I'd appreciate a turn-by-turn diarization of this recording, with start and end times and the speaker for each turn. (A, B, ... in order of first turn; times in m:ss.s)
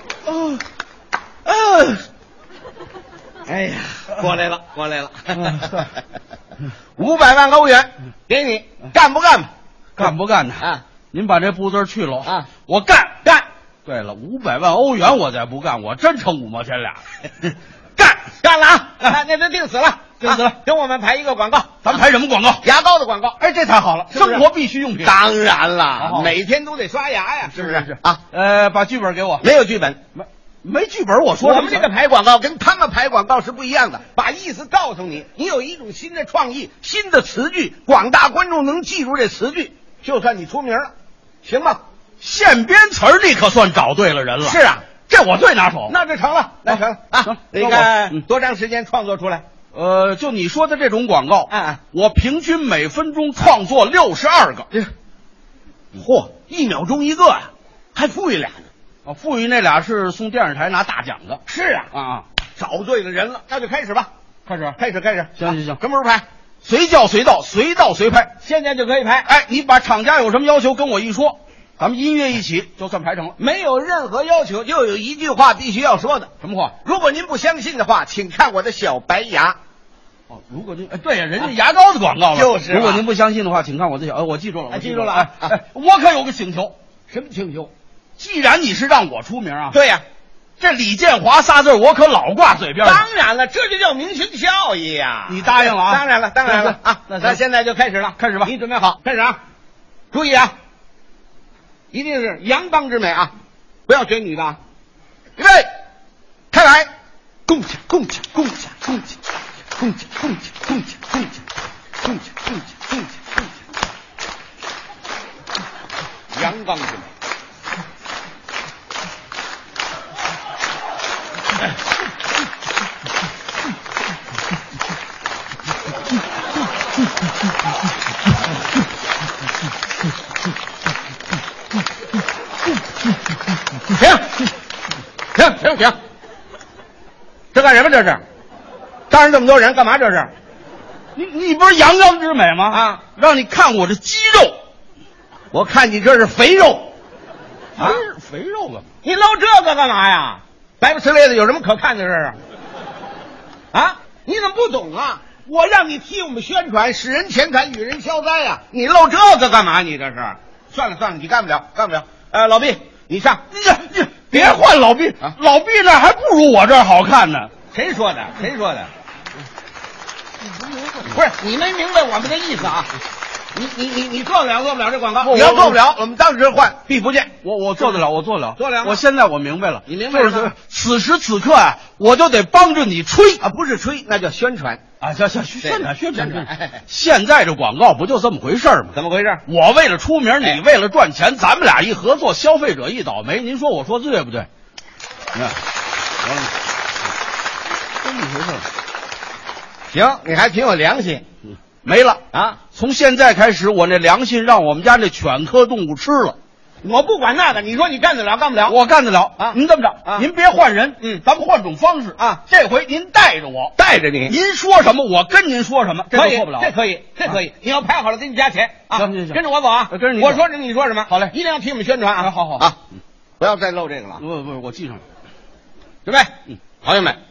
0:03.5-0:05.9 A
0:05.4-0:05.9 B
0:07.0-0:10.8 A
0:10.0-0:13.2 B
0:12.2-0:12.5 A
0:13.9-0:17.5 B
0:18.0-0:22.0 A
0:20.2-0:20.6 B
0:21.8-0:22.6 B
0:22.6-0:23.4 A
0:23.4-0:25.2 B
0:24.1-0:24.4 A
0:25.0-0:28.2 A
0:26.0-0:26.4 B
0:27.5-0:29.5 B
0:29.4-0:30.0 A
0:30.2-0:31.9 B
0:31.4-0:40.9 A
0:41.4-0:41.8 A
0:42.2-0:45.9 B
0:44.4-0:44.9 A
0:45.8-0:49.4 A
0:46.7-0:48.2 B
0:49.7-0:54.7 B
0:51.5-0:51.8 A
0:55.9-0:58.7 A
0:59.0-1:01.4 B
1:01.5-1:01.9 A
1:01.9-1:02.2 B
1:02.6-1:04.1 A
1:04.5-1:04.7 B
1:04.7-1:06.2 A
1:05.4-1:05.8 B
1:06.6-1:08.3 B
1:08.4-1:09.3 A
1:09.3-1:13.4 B
1:13.4-1:19.6 A
1:16.4-1:16.8 B
1:20.3-1:26.8 B
1:22.3-1:23.0 A
1:24.7-1:25.5 A
1:27.1-1:27.7 A
1:28.2-1:29.8 B
1:29.7-1:30.0 A
1:30.6-1:33.0 B
1:32.8-1:39.4 A
1:35.3-1:37.4 B
1:38.2-1:38.5 B
1:40.1-1:40.6 A
1:41.9-1:43.3 A
1:43.9-1:44.6 A
1:45.4-1:45.7 A
1:46.5-1:46.9 A
1:47.5-1:49.2 A
1:49.8-1:51.4 A
1:52.0-1:53.4 A
1:56.3-1:57.1 A
2:13.9-2:14.5 A
2:15.4-2:16.0 A
2:17.5-2:18.2 A
2:19.1-2:20.3 A
2:21.2-2:24.6 B
2:22.7-2:23.1 A
2:25.5-2:26.9 A
2:27.8-2:28.8 B
2:29.0-2:32.4 A
2:33.7-2:43.4 A
2:43.5-2:47.5 B
2:44.3-2:44.6 A
2:47.7-2:48.9 A
2:51.1-2:52.9 A
2:53.5-2:58.0 A
2:55.2-2:55.8 B
2:57.4-3:03.4 B
2:58.6-2:59.0 A
2:59.9-3:00.5 A
3:03.4-3:04.8 A
3:05.0-3:09.0 B
3:05.6-3:06.8 A
3:08.9-3:09.4 A
3:09.5-3:14.5 B
3:18.0-3:18.7 B
3:19.9-3:21.2 A
3:21.8-3:22.2 B
3:22.3-3:22.6 A
3:22.7-3:26.4 B
3:26.8-3:28.8 A
3:28.7-3:33.8 B
3:29.4-3:30.3 A
3:32.2-3:32.4 A
3:33.8-3:34.4 A
3:34.3-3:36.7 B
3:36.1-3:42.8 A
3:38.9-3:40.4 B
3:41.1-3:41.4 B
3:42.2-3:42.7 B
3:43.4-3:44.2 A
3:44.2-3:45.0 B
3:46.0-3:47.2 A